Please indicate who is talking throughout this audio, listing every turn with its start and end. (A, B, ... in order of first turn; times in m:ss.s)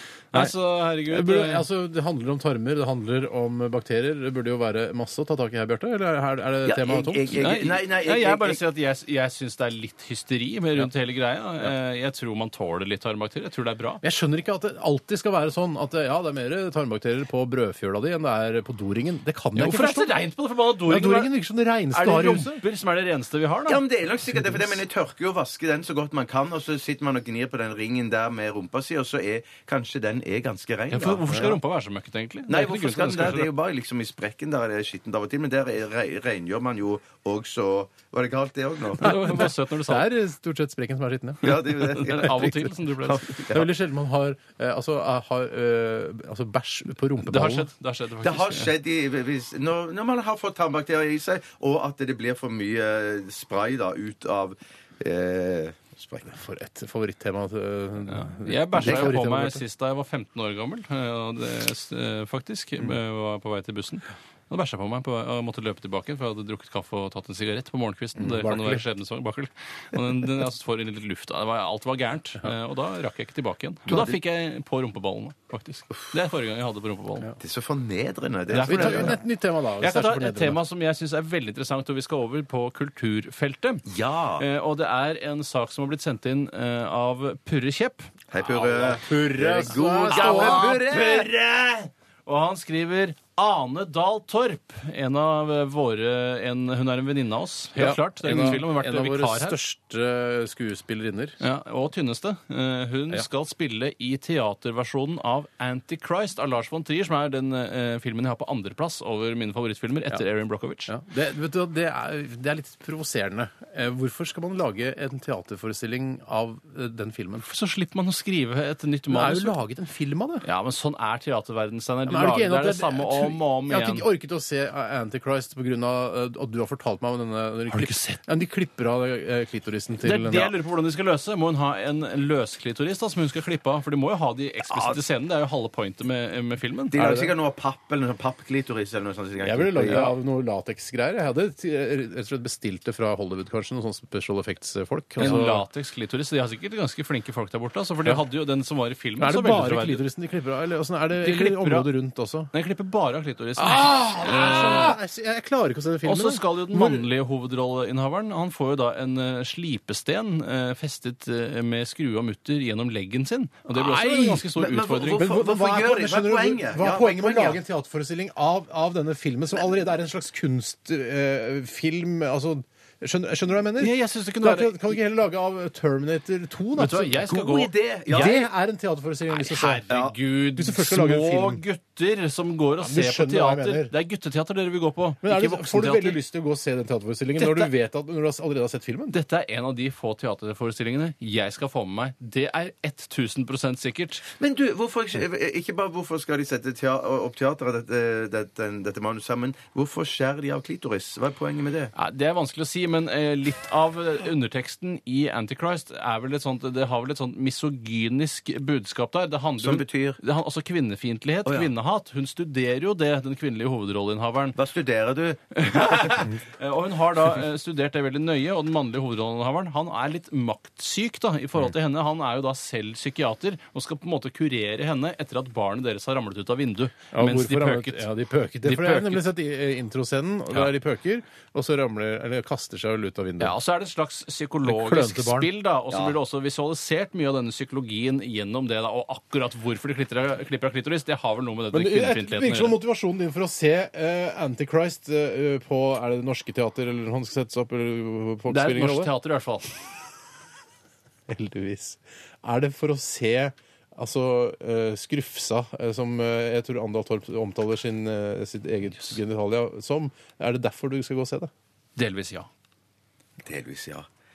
0:00.3-0:01.6 A
0:01.1-0:07.4 B
0:06.6-0:08.6 C
0:07.3-0:14.0 A
0:14.0-0:20.2 B
0:19.6-0:21.3 A
0:20.9-0:22.6 B
0:21.9-0:23.8 A
0:23.7-0:31.4 C
0:24.4-0:24.6 B
0:30.9-0:33.5 A
0:31.3-0:31.6 B
0:32.5-0:39.2 C
0:39.0-0:40.1 A
0:39.0-0:42.7 B
0:41.4-0:43.7 C
0:41.5-0:43.4 A
0:43.5-0:47.7 B
0:47.3-0:48.7 A
0:48.2-0:56.4 C
0:56.3-0:59.6 B
0:58.1-1:17.3 A
1:08.2-1:08.8 B
1:13.9-1:14.2 C
1:17.4-1:19.2 C
1:18.5-1:20.6 B
1:18.5-1:19.2 A
1:19.8-1:23.8 A
1:23.9-1:24.4 C
1:24.4-1:29.0 A
1:28.3-1:31.3 C
1:29.0-1:30.8 B
1:30.1-1:39.6 A
1:37.8-1:41.4 B
1:41.4-1:50.9 A
1:50.9-1:57.5 B
1:57.4-1:59.6 A
1:59.1-2:00.4 B
2:00.4-2:04.1 A
2:02.1-2:10.5 B
2:07.7-2:08.2 A
2:10.0-2:17.0 A
2:16.9-2:20.1 C
2:17.0-2:17.3 B
2:19.4-2:25.6 B
2:19.9-2:20.2 A
2:25.2-2:30.0 A
2:29.2-2:32.5 B
2:31.2-2:31.9 A
2:32.5-2:35.0 A
2:33.6-2:37.1 B
2:36.0-2:45.3 A
2:43.7-2:44.5 B
2:44.6-2:47.6 C
2:45.1-2:57.3 B
2:53.8-2:55.0 A
2:56.8-2:58.4 A
2:57.2-2:58.4 C
2:58.1-2:59.8 B
2:59.3-3:06.2 A
3:00.6-3:01.6 B
3:02.8-3:03.9 B
3:05.2-3:09.2 B
3:07.4-3:07.7 A
3:09.1-3:14.2 A
3:14.4-3:21.9 C
3:22.0-3:34.6 A
3:29.6-3:30.2 C
3:34.6-3:36.2 C
3:35.5-3:48.1 A
3:47.1-3:53.5 B
3:48.6-3:49.3 A
3:53.4-4:02.8 A
3:54.6-3:55.5 B
3:55.9-3:56.2 C
4:01.7-4:09.1 B
4:08.5-4:09.7 A
4:11.3-4:21.5 B
4:22.0-4:22.5 A
4:23.4-4:24.1 C